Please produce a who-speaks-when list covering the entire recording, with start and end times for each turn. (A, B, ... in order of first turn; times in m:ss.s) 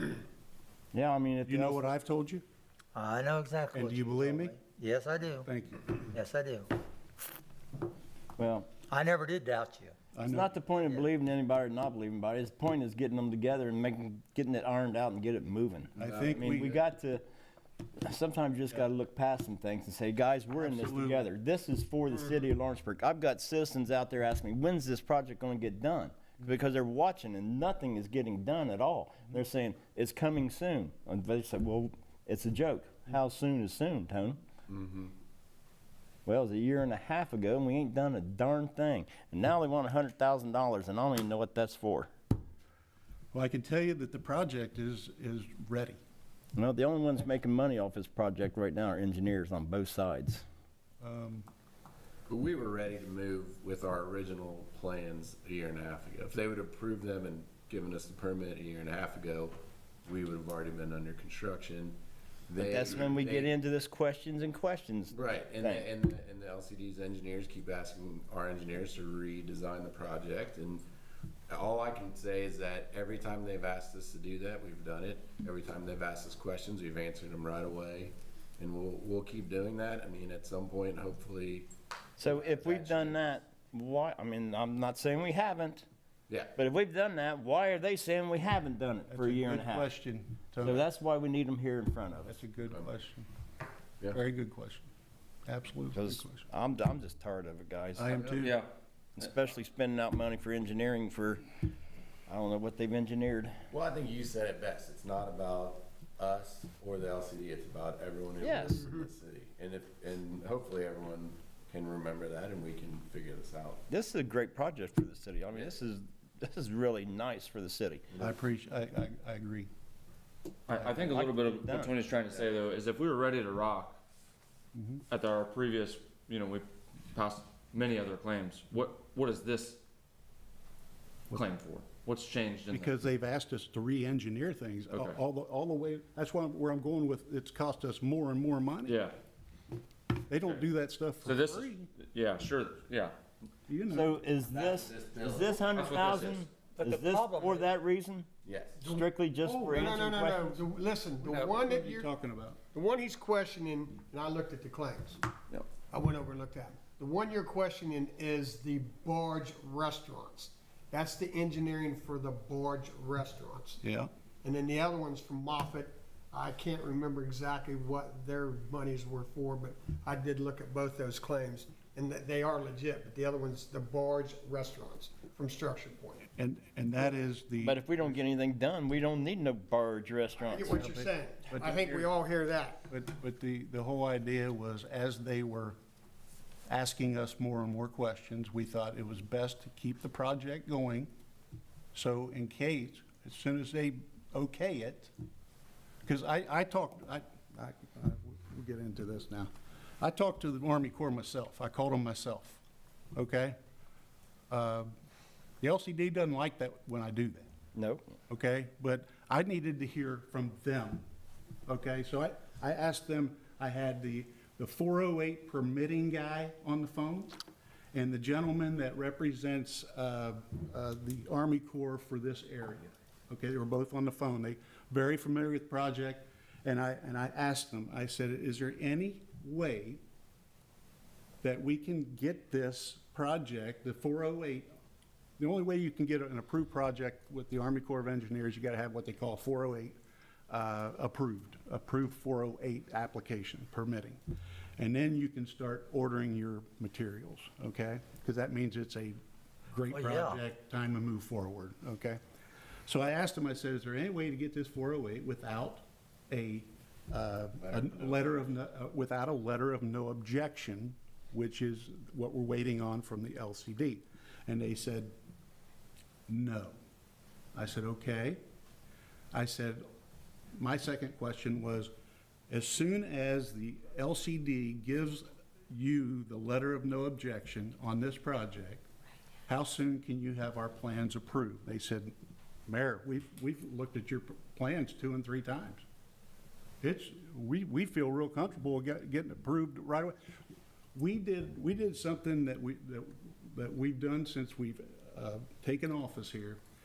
0:00.9-0:01.9 A
0:01.4-0:02.4 B
0:02.9-0:05.5 C
0:03.7-0:04.6 B
0:05.4-0:06.0 B
0:06.1-0:06.7 C
0:08.4-0:08.7 A
0:08.9-0:10.0 C
0:10.1-0:10.5 B
0:10.2-0:17.2 A
0:16.0-0:16.8 B
0:18.0-0:34.4 A
0:20.6-0:21.2 B
0:34.7-0:35.1 D
0:36.2-0:42.1 A
0:43.3-0:46.0 B
0:46.5-0:50.4 A
0:51.0-0:51.5 B
0:52.3-1:03.5 D
1:02.6-1:05.8 A
1:05.1-1:10.8 D
1:11.5-1:23.3 D
1:22.2-1:25.8 A
1:26.3-1:26.5 D
1:26.5-1:29.9 A
1:29.1-1:30.9 B
1:30.6-1:32.4 A
1:32.3-1:33.3 B
1:34.1-1:34.9 B
1:35.4-1:36.4 B
1:35.9-1:38.2 A
1:38.0-1:38.7 B
1:38.4-1:38.7 E
1:39.2-1:41.4 A
1:42.3-1:43.6 A
1:43.7-1:53.8 D
1:48.4-1:48.8 A
1:53.9-1:58.0 A
1:58.1-1:58.4 D
1:58.2-1:59.7 B
2:00.7-2:04.0 E
2:00.7-2:01.0 B
2:00.9-2:01.9 A
2:04.7-2:05.0 B
2:05.1-2:09.8 E
2:11.3-2:12.9 E
2:12.7-2:19.0 B
2:14.9-2:15.2 E
2:18.8-2:19.1 E
2:20.3-2:21.9 B
2:21.2-2:23.1 E
2:23.7-2:24.2 B
2:23.9-2:28.3 A
2:24.5-2:25.6 D
2:25.7-2:26.6 E
2:26.8-2:27.3 C
2:28.4-2:28.8 D
2:28.8-2:32.1 F
2:28.8-2:30.5 A
2:31.4-2:32.6 B
2:32.7-2:35.2 F
2:35.9-2:43.8 F
2:43.8-2:44.1 B
2:44.4-2:56.2 F
2:56.4-2:58.2 B
2:57.6-3:00.7 A
3:00.4-3:02.8 F
3:00.7-3:02.1 B
3:02.9-3:05.8 B
3:06.7-3:11.1 B
3:11.9-3:15.1 B
3:16.0-3:19.5 B
3:20.0-3:22.6 B
3:23.1-3:23.6 B
3:24.5-3:24.9 B
3:25.6-3:27.5 B
3:27.7-3:28.0 A
3:28.3-3:31.0 B
3:31.7-3:37.3 B
3:37.9-3:50.0 B
3:51.4-3:54.7 B
3:55.4-4:00.0 B
4:00.5-4:04.2 B
4:04.8-4:09.2 B
4:09.7-4:12.2 B
4:09.9-4:10.4 C
4:12.8-4:25.1 B
4:17.6-4:18.4 D
4:26.3-4:26.8 B
4:27.5-4:28.4 B
4:29.3-4:29.8 B
4:30.5-4:31.9 B
4:32.5-4:38.8 B
4:39.5-4:42.1 B
4:42.6-4:45.8 B
4:46.8-4:50.2 B
4:50.9-4:56.6 B